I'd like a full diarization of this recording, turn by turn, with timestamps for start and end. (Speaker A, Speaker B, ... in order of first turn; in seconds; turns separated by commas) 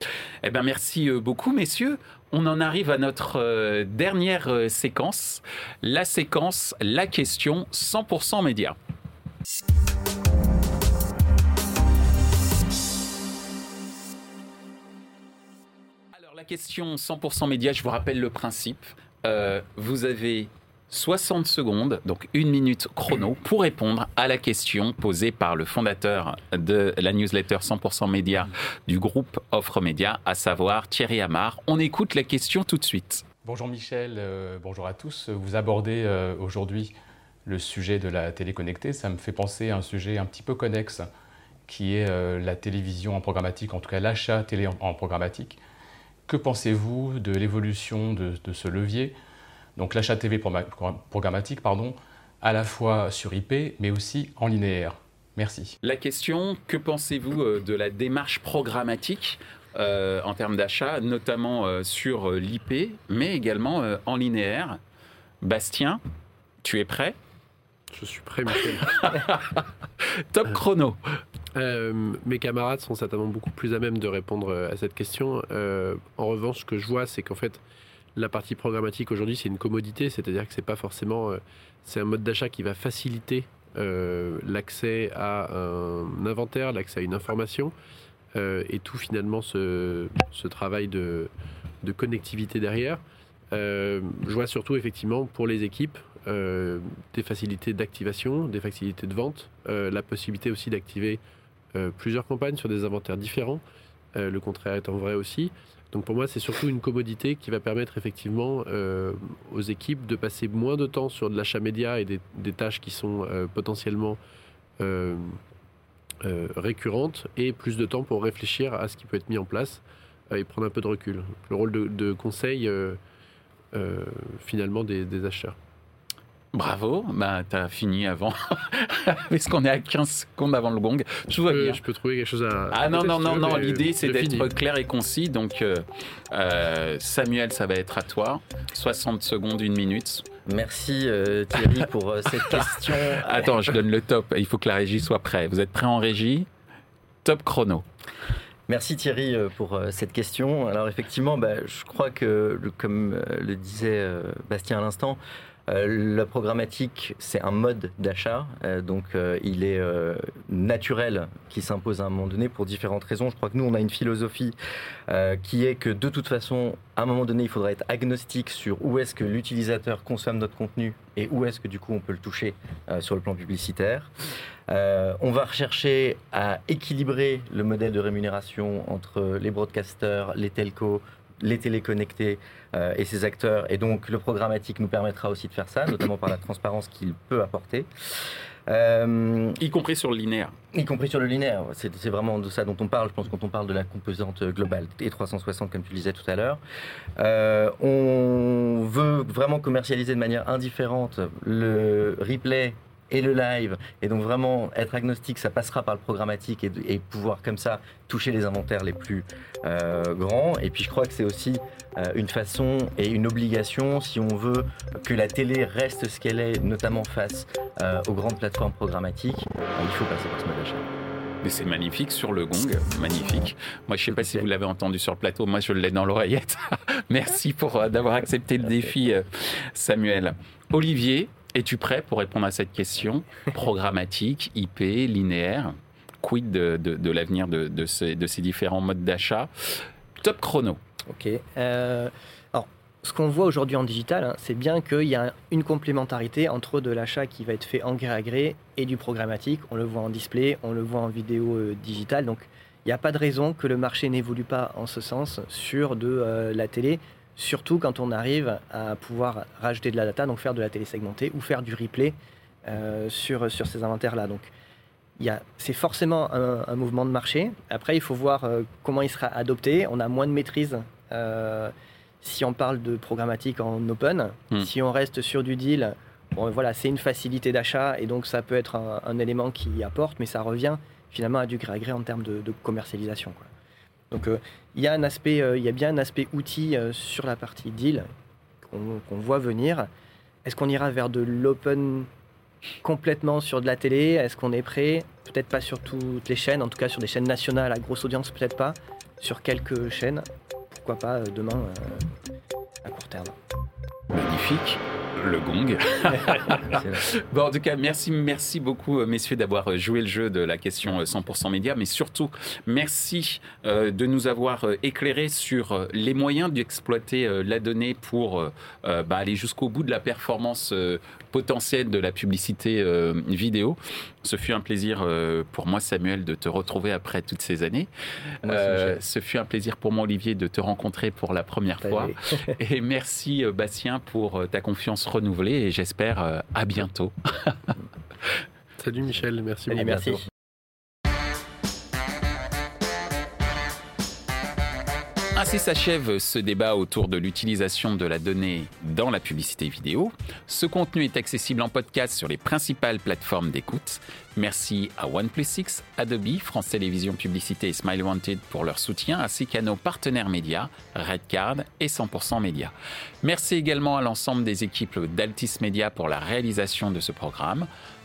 Speaker A: 0.4-8.8, Speaker A: 16.1-33.2, Speaker B: 33.4-36.9, Speaker B: 37.5-41.1, Speaker B: 41.7-45.6, Speaker B: 46.3-49.1, Speaker B: 49.8-55.8, Speaker A: 55.8-64.8, Speaker A: 65.4-66.0, Speaker A: 66.6-67.2, Speaker C: 67.9-69.3, Speaker A: 68.8-71.0, Speaker C: 71.5-77.6, Speaker C: 78.2-87.7, Speaker C: 88.3-91.3, Speaker C: 91.8-93.0, Speaker C: 93.5-101.2, Speaker C: 101.7-103.6, Speaker C: 104.1-114.2, Speaker C: 114.8-115.4, Speaker C: 116.2-123.0, Speaker C: 123.7-125.6, Speaker A: 126.5-131.8, Speaker C: 131.5-134.5, Speaker A: 132.7-140.2, Speaker D: 140.5-143.5, Speaker A: 142.5-146.5, Speaker A: 147.2-147.8, Speaker D: 148.7-164.6, Speaker D: 165.1-174.1, Speaker D: 174.7-187.9, Speaker D: 188.7-189.6, Speaker A: 189.6-190.5, Speaker D: 190.7-196.6, Speaker D: 197.2-220.9, Speaker A: 221.4-240.8, Speaker D: 224.2-224.4, Speaker E: 241.1-262.1, Speaker E: 262.7-264.5, Speaker E: 265.2-283.5, Speaker E: 284.1-288.1, Speaker E: 288.6-289.9, Speaker E: 290.4-292.1, Speaker E: 292.8-302.1, Speaker E: 302.8-303.4, Speaker A: 304.1-327.9, Speaker D: 306.7-307.0, Speaker A: 328.4-337.7, Speaker D: 328.4-329.0, Speaker E: 331.9-332.5, Speaker C: 338.8-340.0, Speaker E: 339.7-340.2, Speaker D: 339.8-340.2, Speaker A: 345.4-367.7